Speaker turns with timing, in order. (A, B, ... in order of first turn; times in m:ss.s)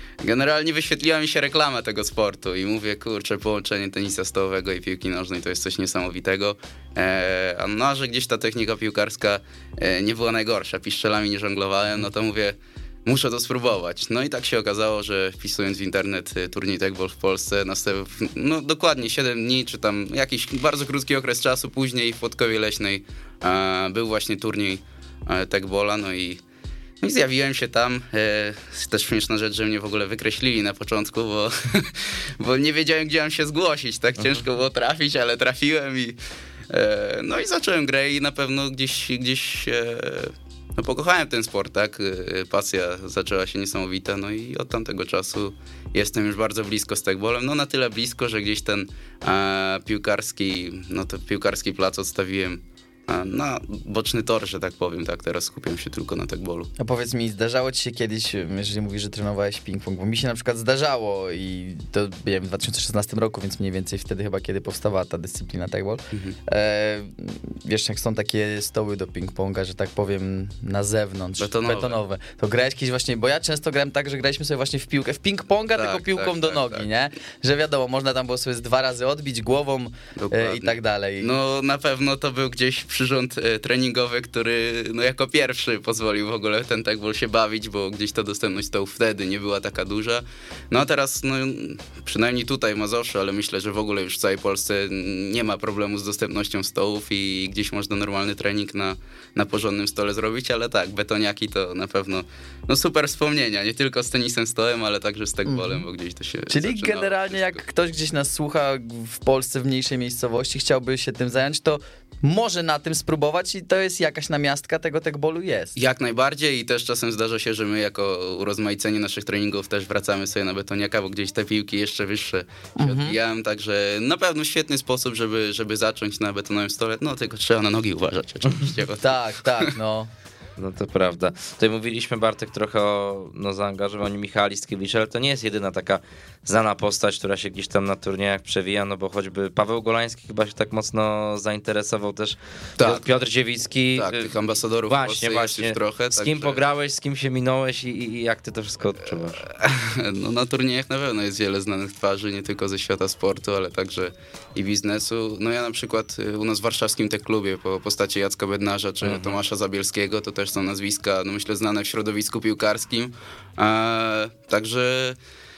0:00.2-0:26.4 A
0:27.0-0:36.2 A
0:36.7-0:56.7 A
0:56.8-1:21.3 B
1:11.4-1:12.0 A
1:15.8-1:16.8 A
1:20.2-1:47.6 A
1:45.4-1:45.8 B
1:46.5-1:55.8 B
1:55.8-2:09.7 A
2:02.8-2:03.2 B
2:09.0-2:10.1 B
2:10.6-2:24.3 C
2:22.8-2:23.2 A
2:24.0-2:26.6 A
2:24.9-2:29.4 C
2:29.2-2:45.2 A
2:39.0-2:39.4 C